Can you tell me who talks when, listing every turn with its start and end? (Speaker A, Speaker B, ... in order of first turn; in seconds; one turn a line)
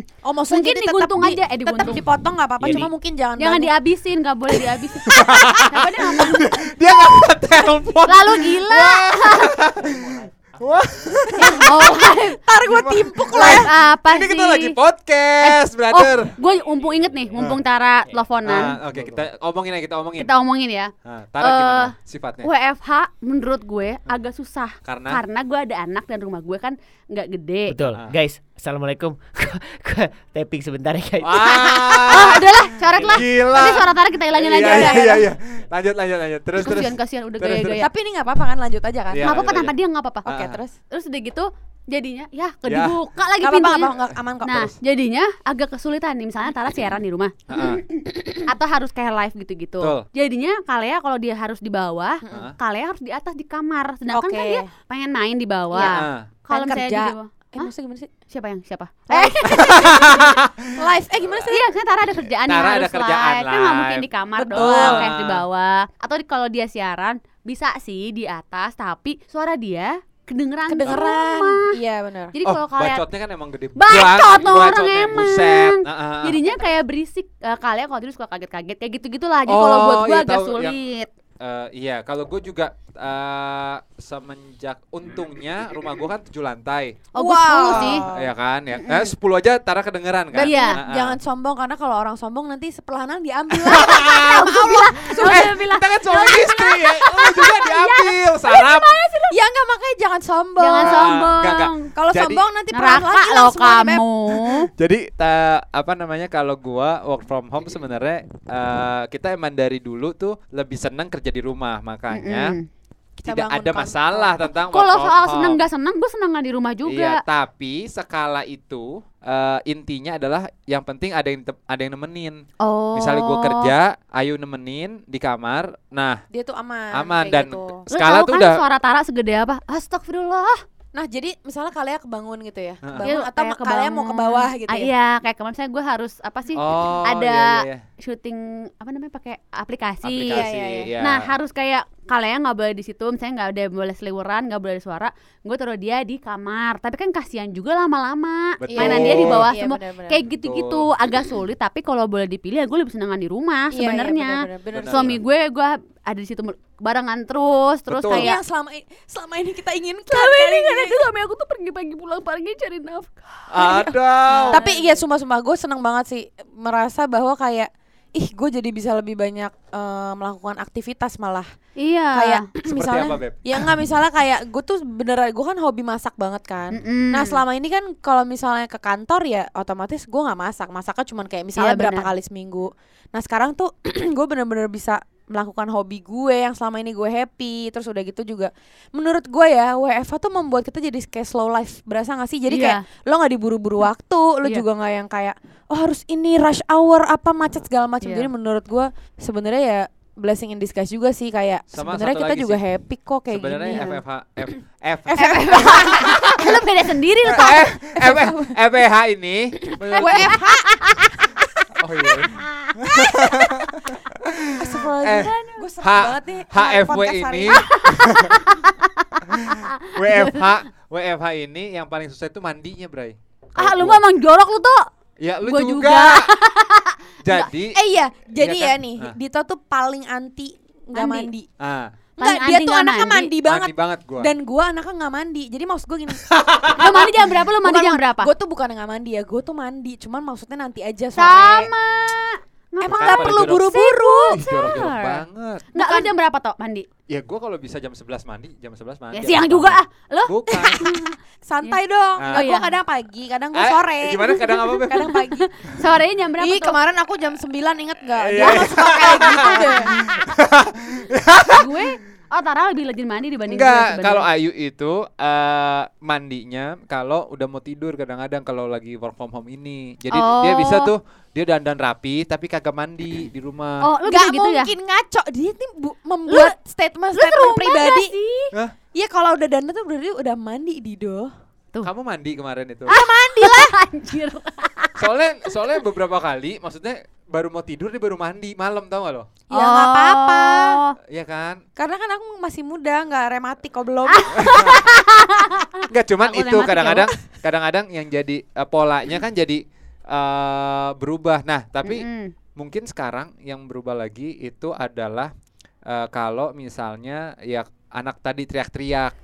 Speaker A: 0.2-3.7
Speaker B: 0.5-2.0
Speaker C: 2.6-2.9
Speaker B: 3.4-6.6
Speaker D: 5.0-16.3
Speaker B: 8.1-9.6
Speaker C: 9.8-10.2
Speaker B: 11.3-12.4
Speaker A: 12.4-13.7
Speaker B: 13.3-14.8
Speaker B: 15.4-18.8
Speaker D: 18.4-20.3
Speaker C: 18.9-19.2
Speaker B: 20.2-27.8
Speaker D: 21.0-22.5
Speaker D: 24.8-25.2
Speaker C: 27.7-32.4
Speaker D: 31.2-37.8
Speaker B: 31.4-35.2
Speaker A: 34.6-35.2
Speaker B: 36.6-37.9
Speaker A: 37.8-39.4
Speaker D: 39.1-39.7
Speaker B: 39.2-40.3
Speaker A: 40.2-40.7
Speaker D: 40.2-40.6
Speaker B: 40.9-57.7
Speaker D: 42.6-43.0
Speaker A: 43.4-44.7
Speaker D: 47.5-47.8
Speaker A: 52.2-52.5
Speaker D: 52.3-52.5
Speaker A: 54.1-54.7
Speaker A: 55.7-58.1
Speaker D: 55.8-56.2
Speaker B: 58.3-60.2
Speaker A: 59.1-61.6
Speaker D: 59.5-60.7
Speaker B: 61.5-71.7
Speaker D: 62.5-65.4
Speaker A: 64.4-65.1
Speaker A: 70.7-72.3
Speaker B: 72.3-73.0
Speaker D: 72.4-76.4
Speaker B: 73.8-81.1
Speaker D: 79.5-80.8
Speaker D: 81.4-87.0
Speaker B: 87.1-88.0
Speaker A: 87.2-88.3
Speaker D: 87.7-91.2
Speaker B: 88.8-89.1
Speaker A: 90.3-95.5
Speaker B: 90.4-90.8
Speaker D: 93.6-98.9
Speaker B: 94.2-99.3
Speaker A: 99.3-101.0
Speaker B: 100.6-101.9
Speaker D: 100.8-102.4
Speaker A: 101.9-104.0
Speaker B: 102.7-104.7
Speaker D: 104.4-112.6
Speaker B: 112.1-112.6
Speaker A: 113.2-114.4
Speaker D: 113.2-115.6
Speaker B: 114.7-117.2
Speaker D: 116.8-122.4
Speaker B: 122.6-123.7
Speaker D: 122.9-126.2
Speaker A: 126.3-127.8
Speaker D: 126.9-128.6
Speaker B: 127.9-130.6
Speaker A: 130.9-134.9
Speaker D: 132.8-133.1
Speaker B: 133.0-140.4
Speaker D: 136.5-137.8
Speaker D: 140.0-141.3
Speaker A: 140.3-140.9
Speaker B: 141.0-158.4
Speaker D: 148.6-149.5
Speaker A: 148.7-150.2
Speaker D: 150.3-150.9
Speaker A: 153.7-155.2
Speaker D: 154.7-155.2
Speaker D: 157.9-158.3
Speaker A: 158.1-161.0
Speaker B: 160.1-163.4
Speaker D: 163.5-164.6
Speaker A: 163.6-163.9
Speaker B: 164.3-165.0
Speaker A: 164.5-171.5
Speaker B: 171.8-172.4
Speaker A: 172.1-203.8
Speaker D: 172.7-173.6
Speaker B: 176.7-177.4
Speaker B: 181.6-182.1
Speaker B: 192.5-192.8
Speaker B: 198.0-198.3
Speaker D: 201.7-202.6
Speaker D: 203.3-206.5
Speaker B: 203.6-204.0
Speaker A: 205.1-206.4
Speaker B: 205.1-207.6
Speaker D: 207.3-210.4
Speaker A: 207.4-208.5
Speaker A: 209.7-211.5
Speaker B: 209.9-210.4
Speaker D: 211.8-218.3
Speaker A: 212.1-214.0
Speaker A: 214.6-218.1
Speaker B: 215.1-215.6
Speaker B: 217.7-220.5
Speaker D: 219.3-224.0
Speaker B: 223.6-224.8
Speaker D: 225.2-226.2
Speaker B: 225.4-227.5
Speaker D: 227.2-227.8
Speaker A: 227.7-231.4
Speaker D: 228.4-229.1
Speaker B: 230.9-231.3
Speaker D: 231.6-231.9
Speaker B: 232.2-233.3
Speaker A: 232.2-236.2
Speaker D: 233.4-234.3
Speaker D: 236.3-237.1
Speaker B: 236.7-238.3
Speaker A: 237.6-241.7
Speaker B: 241.2-246.9
Speaker D: 241.2-241.6
Speaker A: 242.8-244.4
Speaker D: 242.8-243.7
Speaker D: 244.3-245.7
Speaker A: 245.8-246.1
Speaker D: 247.1-250.8
Speaker B: 249.1-251.1
Speaker A: 250.6-255.5
Speaker D: 252.2-252.5
Speaker B: 252.3-252.7
Speaker D: 253.5-255.1
Speaker B: 254.5-256.8
Speaker A: 256.4-260.0
Speaker D: 258.1-261.7
Speaker B: 259.9-260.3
Speaker B: 261.4-264.3
Speaker D: 263.5-273.9
Speaker B: 270.1-270.9
Speaker B: 273.8-274.7
Speaker A: 274.0-278.1
Speaker B: 276.3-276.5
Speaker B: 277.1-278.5
Speaker A: 278.9-281.3
Speaker D: 281.8-282.9
Speaker A: 282.9-283.7
Speaker B: 282.9-284.9
Speaker D: 285.0-289.3
Speaker A: 289.5-290.8
Speaker B: 289.5-290.9
Speaker D: 291.1-291.6
Speaker A: 291.8-295.0
Speaker B: 294.1-297.1
Speaker D: 294.4-294.8
Speaker D: 295.9-305.3
Speaker B: 301.8-302.3
Speaker D: 305.9-309.1